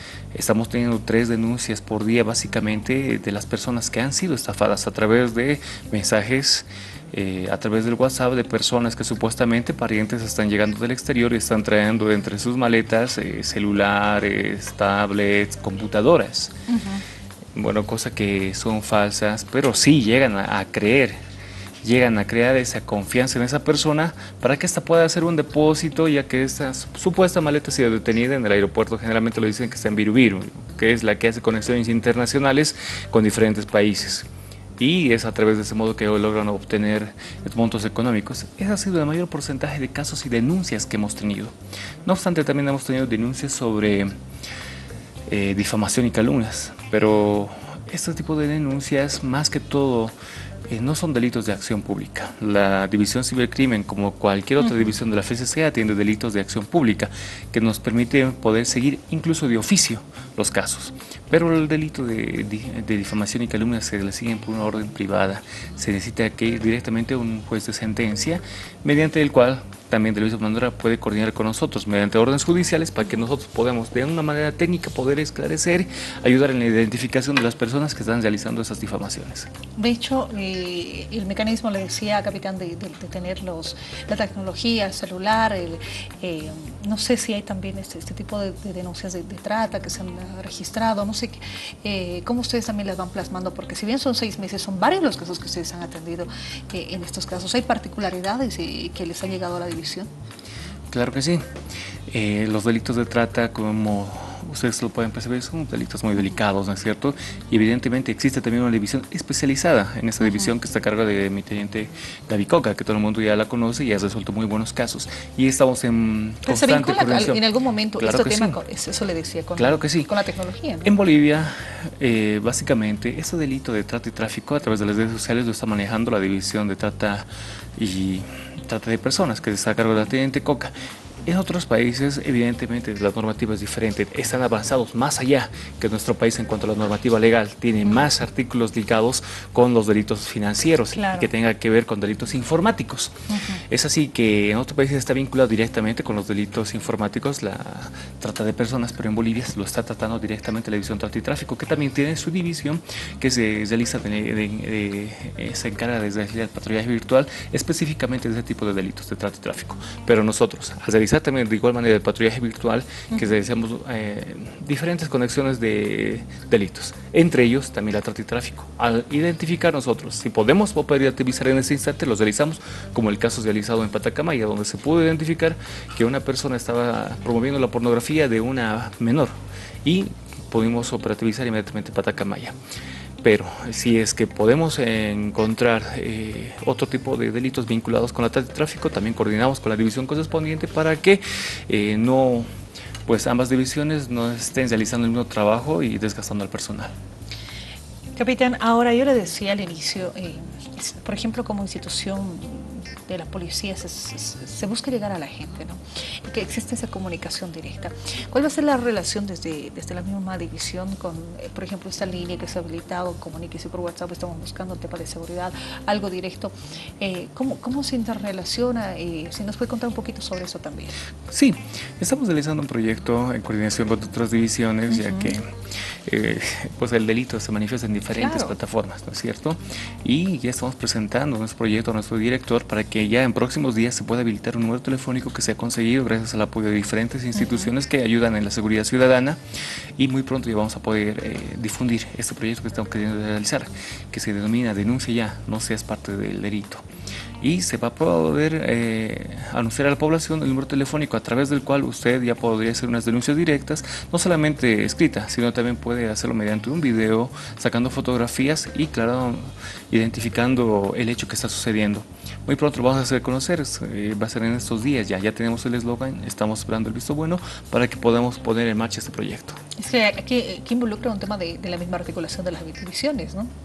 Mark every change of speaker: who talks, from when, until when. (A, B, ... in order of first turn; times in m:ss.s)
0:00.3-0:16.5 A
0:16.7-0:17.0 B
0:17.6-0:21.2 A
0:21.8-0:34.3 A
0:34.8-0:41.5 A
0:42.1-0:44.1 A
0:45.3-0:50.1 A
0:50.7-1:19.5 A
1:19.8-1:40.1 B
1:40.9-1:41.4 A
1:42.1-1:57.4 A
1:56.5-2:00.9 B
1:58.0-1:58.6 A
1:59.6-2:00.1 A
2:00.8-2:10.7 A
2:11.3-2:23.1 A
2:20.9-2:21.3 B
2:23.3-2:23.6 B
2:23.7-2:59.3 A
2:59.8-3:02.6 A
3:03.2-3:12.5 A
3:13.1-3:16.9 A
3:18.2-3:40.9 B
3:41.3-3:45.5 A
3:44.9-3:45.3 B
3:46.1-3:59.4 A
3:48.2-3:48.5 B
4:00.0-4:06.8 A
4:07.4-4:29.6 A
4:29.8-4:33.5 B